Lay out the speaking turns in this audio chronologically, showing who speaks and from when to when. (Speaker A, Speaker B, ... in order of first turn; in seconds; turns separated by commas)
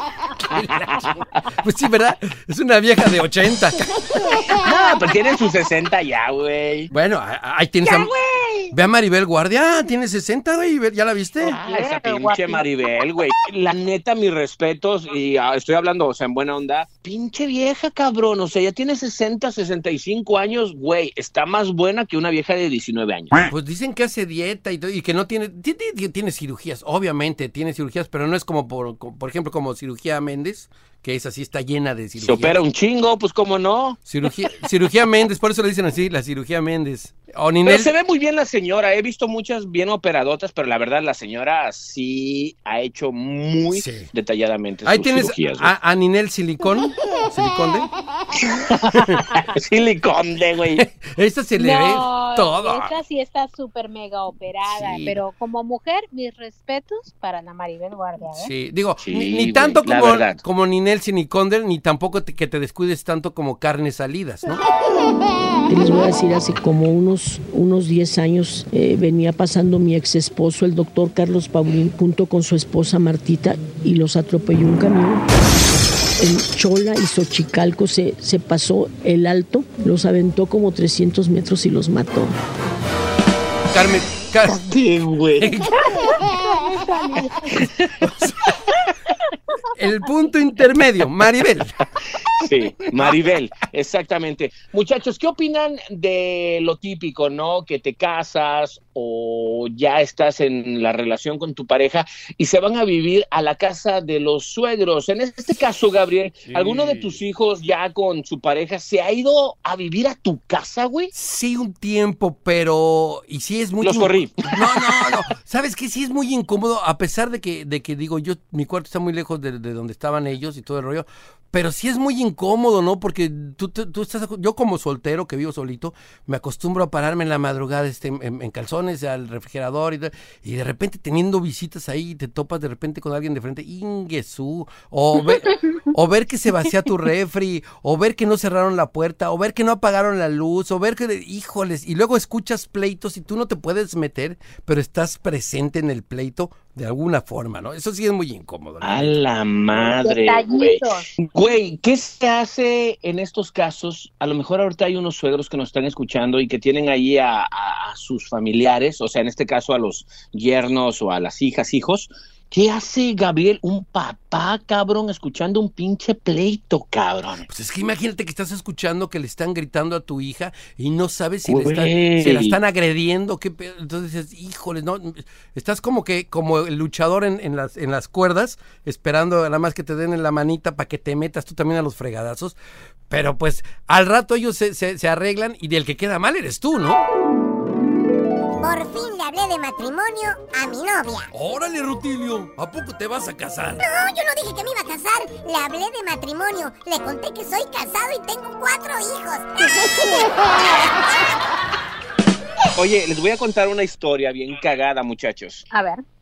Speaker A: 0.5-3.8, Speaker B: 4.6-6.9, Speaker A: 6.9-8.1, Speaker C: 8.1-8.7, Speaker A: 8.7-11.6, Speaker B: 11.5-23.4, Speaker C: 11.5-12.7, Speaker A: 23.5-32.6, Speaker B: 32.2-34.0, Speaker A: 34.0-37.9, Speaker B: 37.6-45.7, Speaker A: 43.7-44.1, Speaker A: 44.9-47.9, Speaker B: 49.5-50.9, Speaker A: 50.8-52.9, Speaker C: 51.6-58.5, Speaker A: 54.6-55.2, Speaker A: 58.3-64.6, Speaker B: 59.0-60.4, Speaker D: 65.7-75.2, Speaker D: 76.2-82.4, Speaker A: 83.7-84.6, Speaker B: 84.5-85.5, Speaker A: 85.4-85.7, Speaker C: 86.1-87.7, Speaker A: 88.0-88.3, Speaker A: 89.8-91.7, Speaker B: 92.4-111.1, Speaker A: 106.6-107.0, Speaker A: 111.1-149.2, Speaker B: 113.8-114.6, Speaker B: 148.8-167.4, Speaker C: 150.0-151.1, Speaker A: 167.5-182.6, Speaker B: 171.5-172.6, Speaker A: 183.1-187.1, Speaker E: 188.6-191.3, Speaker A: 191.3-193.8, Speaker E: 193.8-200.9, Speaker B: 202.8-205.7, Speaker C: 205.7-206.0